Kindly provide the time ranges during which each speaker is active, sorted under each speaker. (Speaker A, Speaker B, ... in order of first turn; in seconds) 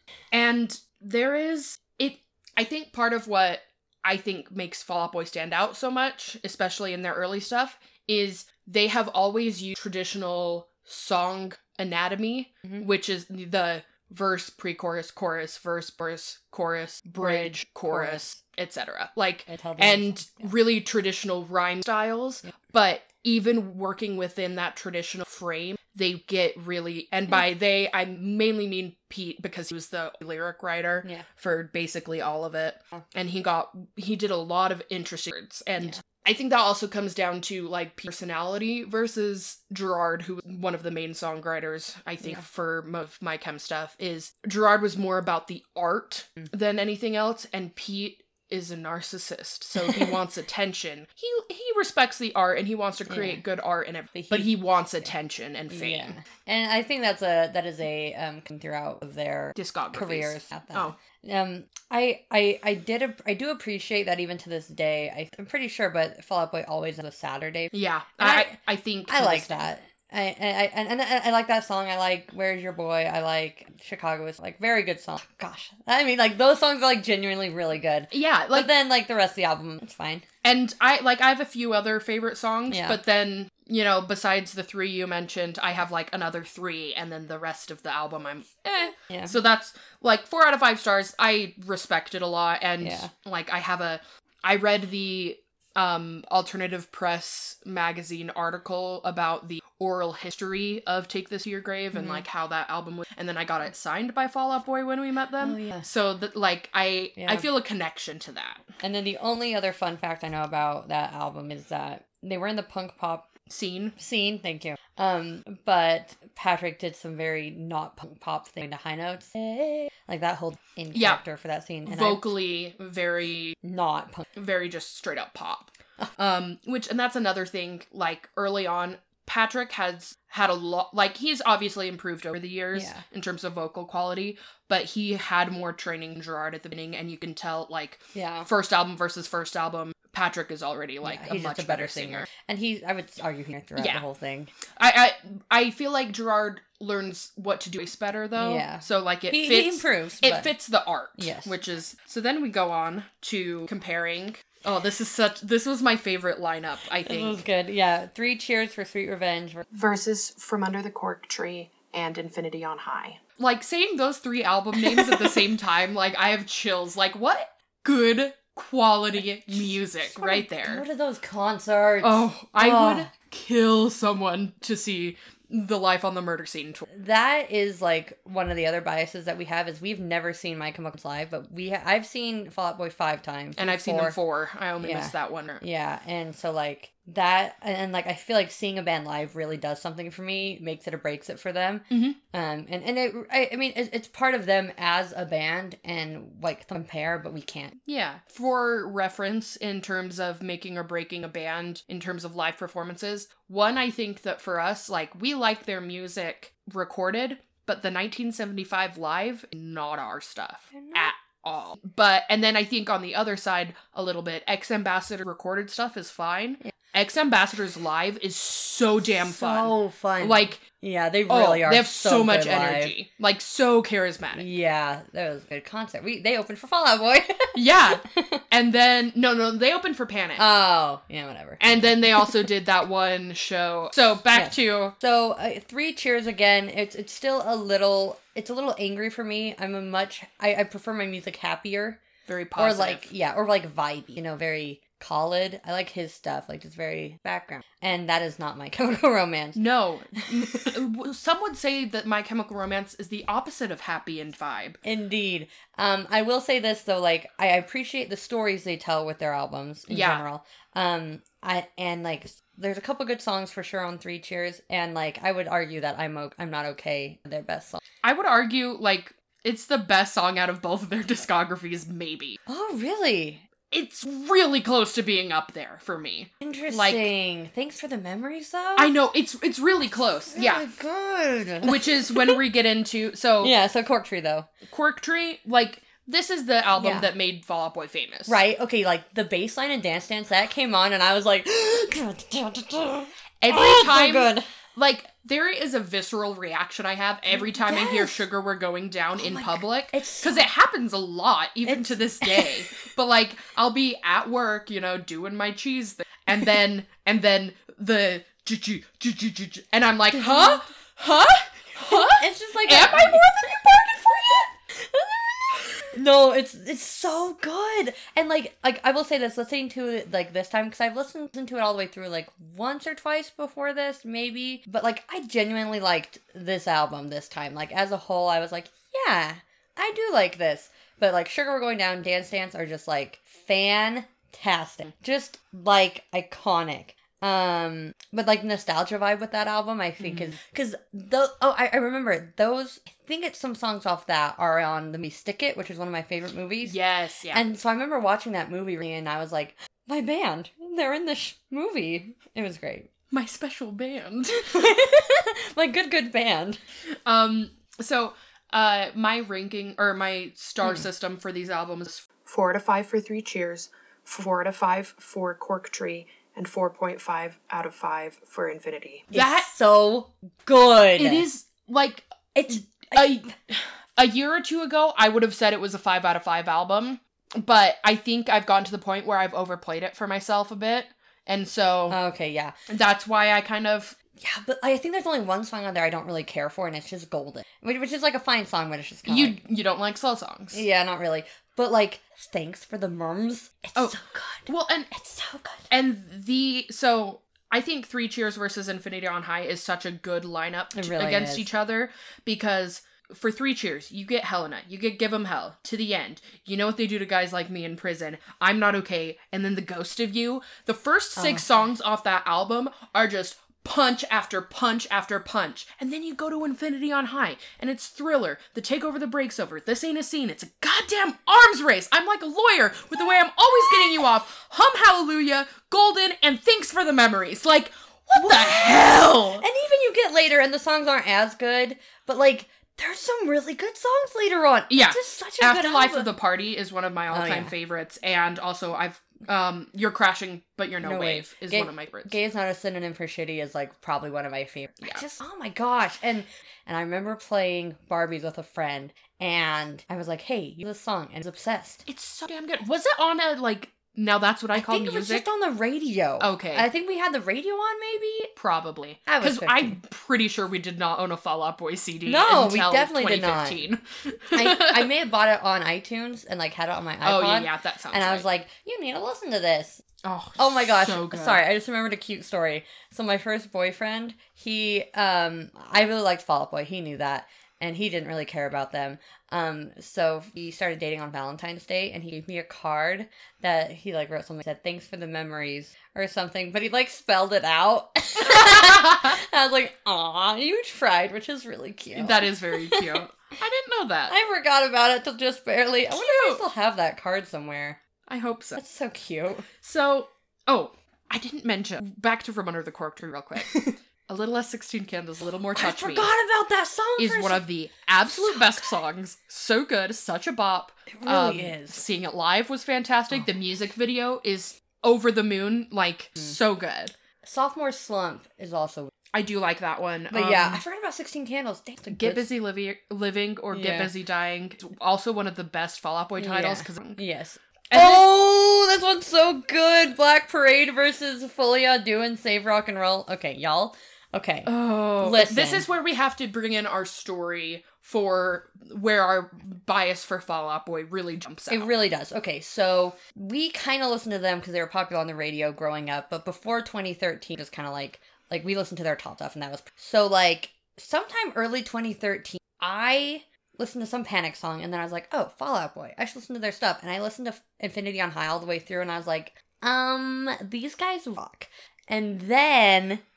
Speaker A: 0.3-56.2, 59.5-61.0, 67.7-69.7, 78.1-78.7, 80.4-108.7, 113.5-114.0, 120.9-121.2, 121.8-123.6, 124.3-142.3, 143.8-144.0, 144.8-157.4, 163.4-170.8, 172.0-176.8, 183.6-185.6, 191.9-192.2, 197.8-220.6, 221.3-224.5, 227.5-230.4, 231.6-234.9, 242.3-243.1, 249.6-254.8, 259.9-260.2, 268.0-272.4, 273.7-277.1, 278.8-280.7, 281.6-283.5, 284.6-288.4, 293.4-314.5, 340.0-340.4, 346.6-347.4, 353.1-354.5, 357.1-362.1, 369.1-369.5, 371.0-382.0, 382.7-383.9, 389.1-390.6, 393.7-394.9, 395.7-429.4, 434.7-442.2, 451.9-455.3, 456.2-456.7, 458.4-464.9, 467.0-468.3, 470.0-471.4, 488.4-489.1, 491.9-494.1, 495.9-496.4, 498.1-498.6, 499.6-506.1, 507.0-516.9, 519.1-520.6, 521.9-527.0, 527.7-528.0, 534.5-541.7
Speaker B: 17.1-18.2, 19.5-20.5, 49.8-50.1, 53.1-53.4, 54.1-55.1, 55.7-68.6, 69.1-80.2, 82.7-83.0, 89.0-89.4, 92.8-93.1, 101.9-102.2, 105.4-105.9, 107.2-107.5, 108.8-113.3, 114.0-122.3, 123.6-124.3, 132.7-133.0, 138.1-138.5, 141.0-144.5, 148.4-150.5, 151.2-151.6, 157.0-159.6, 164.8-165.4, 169.2-173.1, 176.9-184.2, 184.8-197.8, 210.7-211.1, 219.3-222.9, 224.3-228.4, 230.4-232.5, 234.3-242.0, 242.6-249.6, 250.2-250.8, 254.8-267.8, 272.5-273.4, 276.4-278.9, 280.3-282.4, 283.4-284.5, 286.7-287.1, 288.3-294.5, 297.3-298.2, 299.1-300.4, 301.6-302.6, 310.1-310.6, 311.8-346.8, 347.3-352.9, 354.5-356.6, 360.6-360.9, 369.1-371.3, 372.3-373.3, 381.9-382.5, 384.2-389.4, 390.5-395.7, 400.7-401.5, 411.1-411.4, 423.7-424.0, 428.1-436.1, 437.1-437.5, 440.8-451.8, 454.5-458.3, 459.1-459.8, 462.1-463.6, 464.3-469.8, 470.4-493.0, 494.1-497.8, 498.6-499.5, 503.4-503.7, 505.5-507.4, 508.0-508.8, 510.9-511.8, 517.2-518.9, 520.1-522.3, 523.5-523.9, 526.2-535.7, 541.5-563.0
Speaker C: 159.7-163.2, 362.2-369.1